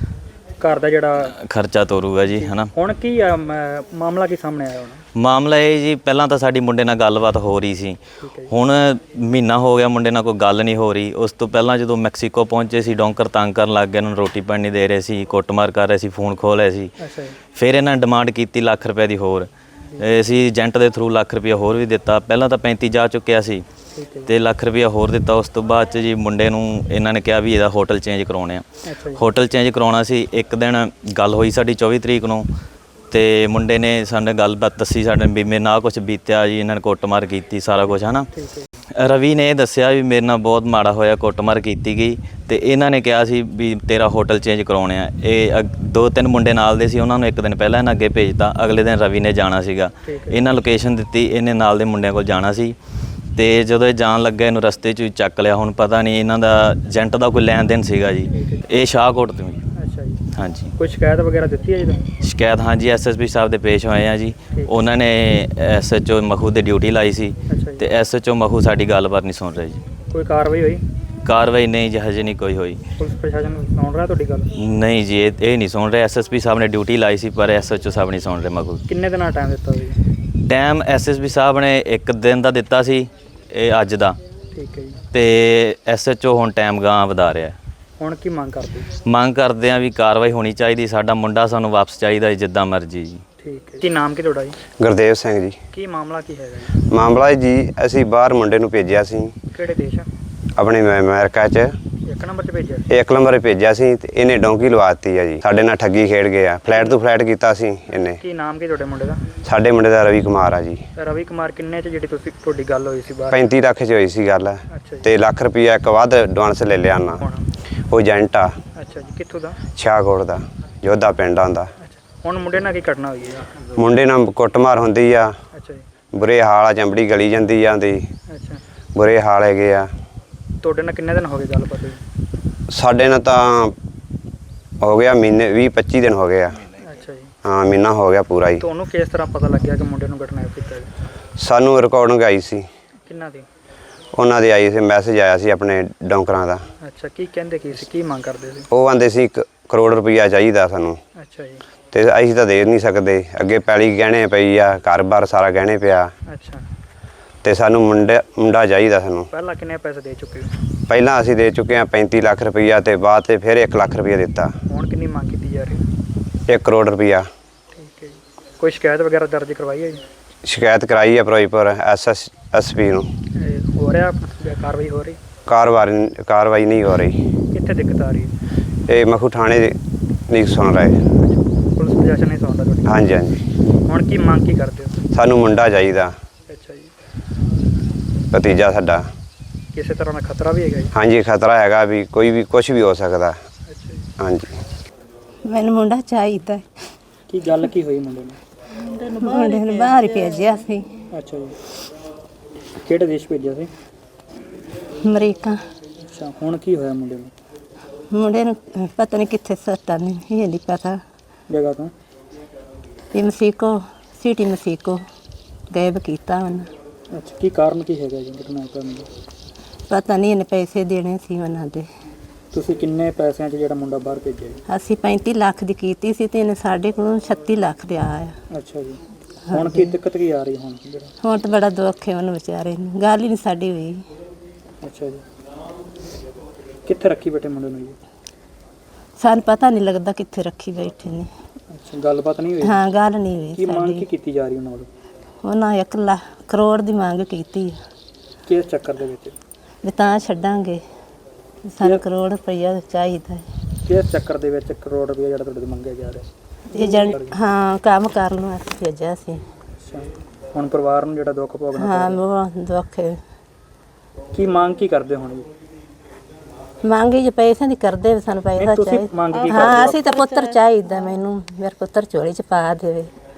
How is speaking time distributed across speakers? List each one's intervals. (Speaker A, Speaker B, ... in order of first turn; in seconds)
Speaker A: 0.6-1.3, 2.4-5.0, 8.2-8.5, 17.0-17.4, 24.0-24.3, 28.9-29.2, 38.4-38.7, 50.1-50.5, 58.3-58.7, 59.8-60.2, 60.8-62.1, 67.5-67.9, 70.1-70.8, 73.0-74.5, 78.9-80.0, 84.5-85.0, 88.0-88.9, 93.4-94.6, 95.7-96.7, 99.5-100.1, 102.1-102.9, 106.7-107.0, 108.2-109.3, 111.0-113.5, 114.7-115.1, 117.2-117.5, 118.8-119.6, 121.8-123.6, 125.5-125.8, 128.3-128.6, 130.6-132.0, 136.8-137.3, 138.6-140.9, 143.1-143.5, 146.8-148.7, 151.2-151.6, 156.3-156.6, 159.3-160.5, 164.7-165.8, 167.7-170.0, 173.4-175.2, 177.5-178.3, 181.2-183.0, 183.9-184.9, 186.5-186.9, 189.7-190.9, 193.7-194.0, 197.3-198.4, 201.1-201.6, 202.9-203.7, 206.1-207.3, 211.5-211.9, 217.1-219.1, 222.5-224.6, 228.5-229.0, 229.5-231.1, 234.8-235.2, 236.9-238.0, 241.7-242.8, 243.6-244.9, 248.5-249.4, 253.8-257.4, 259.8-262.2, 264.3-265.5, 268.6-270.1
Speaker B: 1.3-2.7, 5.2-8.0, 8.5-16.9, 17.6-19.5, 20.0-23.6, 24.3-28.6, 29.2-32.5, 33.1-38.3, 39.0-52.8, 53.4-59.6, 60.4-60.7, 62.2-69.8, 71.2-72.8, 74.6-78.8, 80.5-84.2, 85.1-87.6, 89.1-93.2
Speaker C: 94.8-95.6, 96.9-99.3, 100.6-101.7, 102.9-108.2, 109.4-110.8, 113.3-117.2, 117.9-118.5, 119.8-121.7, 123.8-125.3, 126.1-128.0, 128.9-129.9, 132.7-133.7, 134.8-136.6, 137.4-138.6, 141.4-142.6, 144.2-146.6, 148.7-151.0, 151.9-156.1, 157.4-159.3, 160.9-164.5, 166.5-167.3, 170.4-173.1, 175.5-177.2, 178.9-179.8, 180.3-181.0, 182.9-183.4, 185.1-186.1, 188.3-189.1, 190.9-193.4, 194.2-194.5
Speaker D: 195.4-196.7, 199.2-200.9, 205.0-205.6, 208.1-211.0, 213.1-215.0, 215.7-216.7, 219.9-221.9, 224.7-228.3, 229.5-230.0, 231.2-234.1, 239.2-241.3, 242.6-244.1, 245.4-247.8, 249.8-250.8, 251.7-253.5, 256.7-259.4, 261.8-263.2, 266.8-273.1